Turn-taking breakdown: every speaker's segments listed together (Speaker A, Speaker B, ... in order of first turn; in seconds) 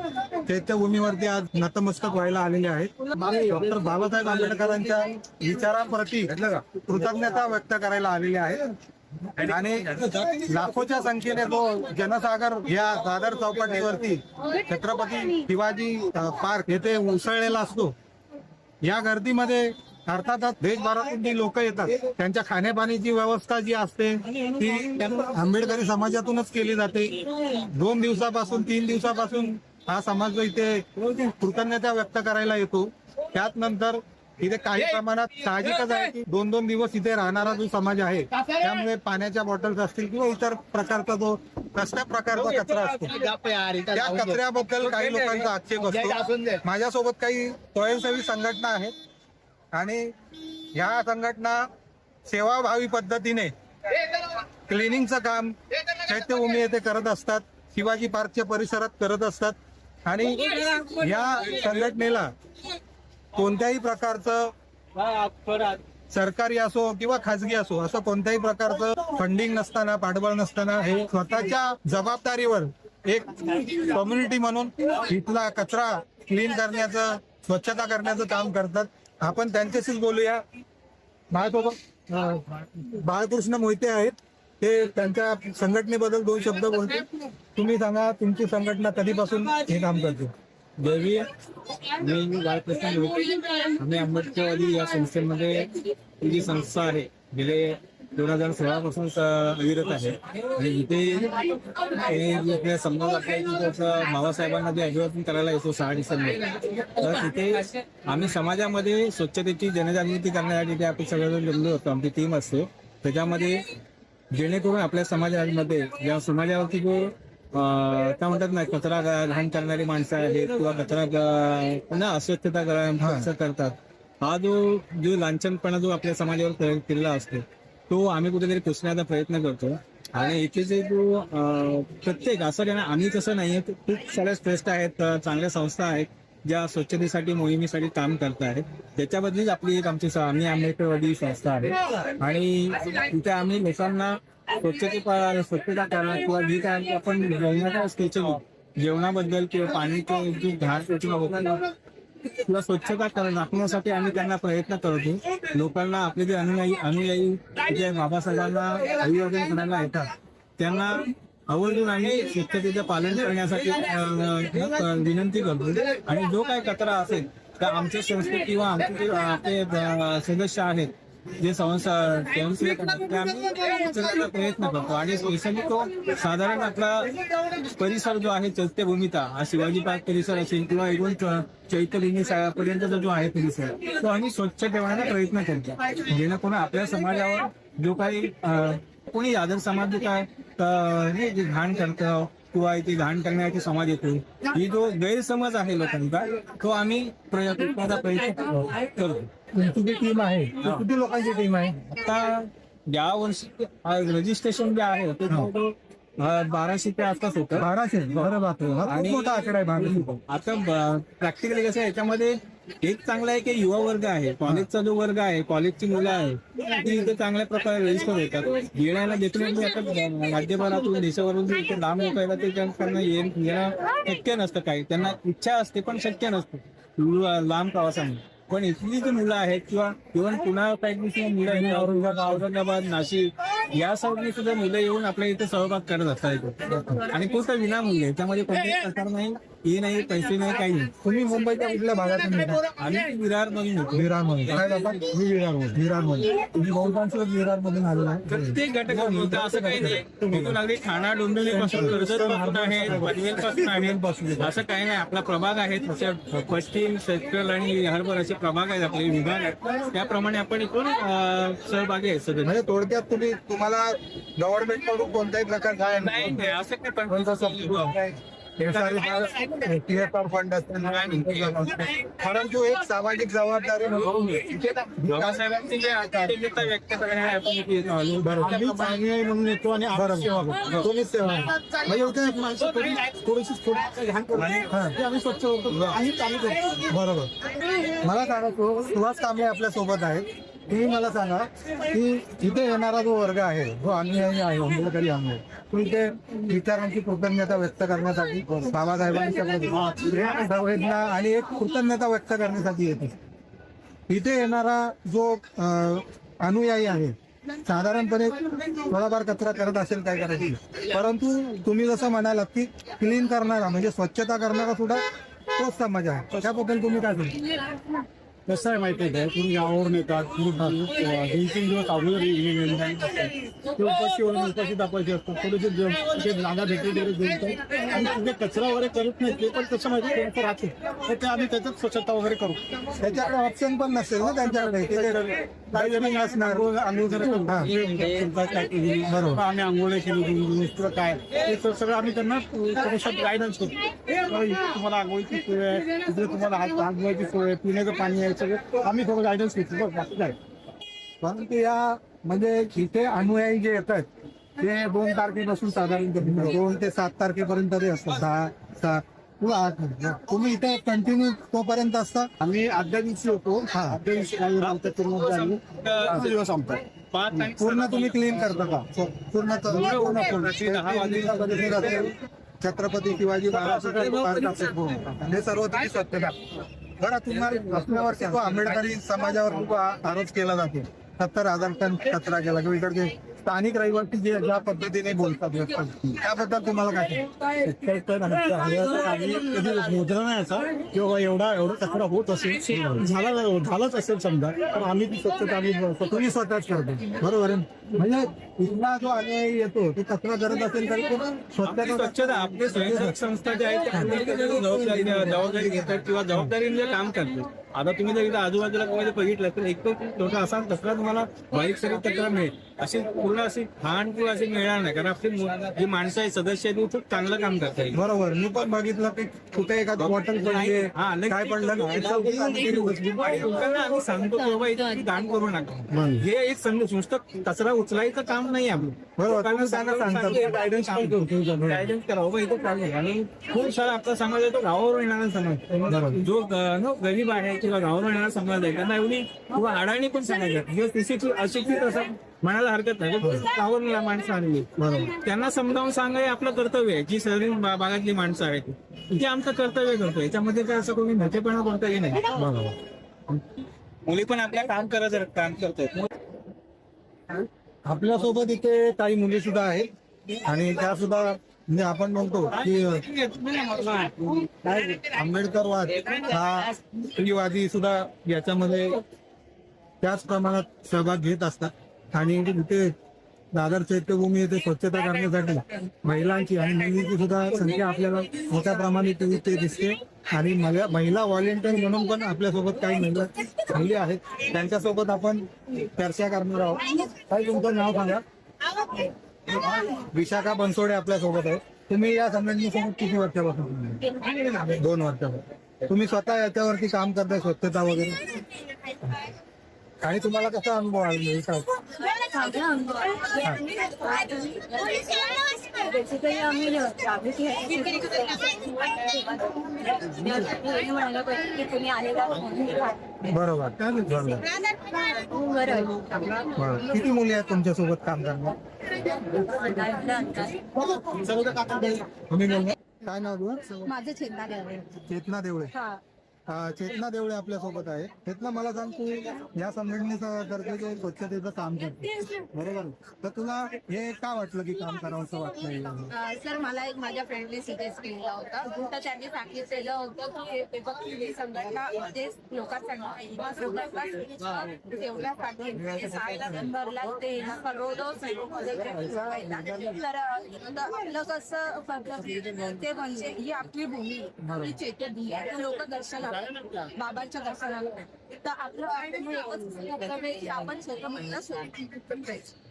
Speaker A: 0.4-8.8, 9.4-17.9, 18.8-43.2, 43.9-48.9, 49.7-50.1, 50.7-51.6, 52.3-53.5, 54.7-62.3, 63.4-64.5, 66.1-80.4, 81.3-90.3, 123.0-123.3, 199.5-201.8, 207.6-210.2, 231.4-232.4, 241.0-242.7, 243.9-250.6, 251.4-254.6, 262.4-266.6, 267.1-274.2, 275.0-276.7, 278.2-279.0, 279.9-283.9, 284.4-286.1, 286.8-287.3, 288.0-303.2, 304.1-315.0, 315.6-317.4, 320.6-320.9, 333.0-336.7, 337.4-337.7, 339.1-339.4, 351.2-354.1, 354.6-362.3, 363.6-364.0, 367.6-376.4, 377.0-390.5, 391.1-391.9, 392.7-393.2, 394.6-402.2, 402.7-403.2, 403.9-406.5, 417.9-423.5, 425.9-426.2, 429.2-431.9, 435.9-436.2, 444.8-445.1, 452.3-452.8, 457.9-459.9, 460.4-463.0, 464.9-469.0, 470.0-472.9, 473.5-488.2, 489.5-498.5, 500.0-501.7, 513.2-514.4, 516.5-518.6, 521.1-523.8, 525.0-525.7, 526.5-536.1, 554.4-554.7
Speaker B: 42.5-45.4, 45.9-46.4, 245.0-245.6, 274.5-274.9, 278.4-280.6, 283.9-286.7, 318.5-332.6, 334.5-350.4, 362.4-366.8, 369.7-370.5, 373.9-374.4, 389.3-394.7
Speaker C: 61.4-61.8, 65.0-65.8, 90.8-91.3, 92.0-113.7, 114.3-151.7, 152.4-199.3, 202.0-208.3, 208.8-240.9, 242.8-244.6, 248.3-262.6, 266.0-267.9, 268.6-269.6, 270.8-271.9, 274.1-274.5, 275.1-278.8, 364.6-366.3, 367.1-368.5, 369.7-372.1, 373.5-373.9, 401.6-418.0, 420.0-452.3, 454.1-456.1, 462.6-464.9
Speaker D: 502.1-509.5, 510.1-512.9, 515.4-515.8
Speaker E: 507.7-508.4, 515.3-516.4, 519.5-520.7, 523.8-524.9, 525.7-526.0, 536.1-562.5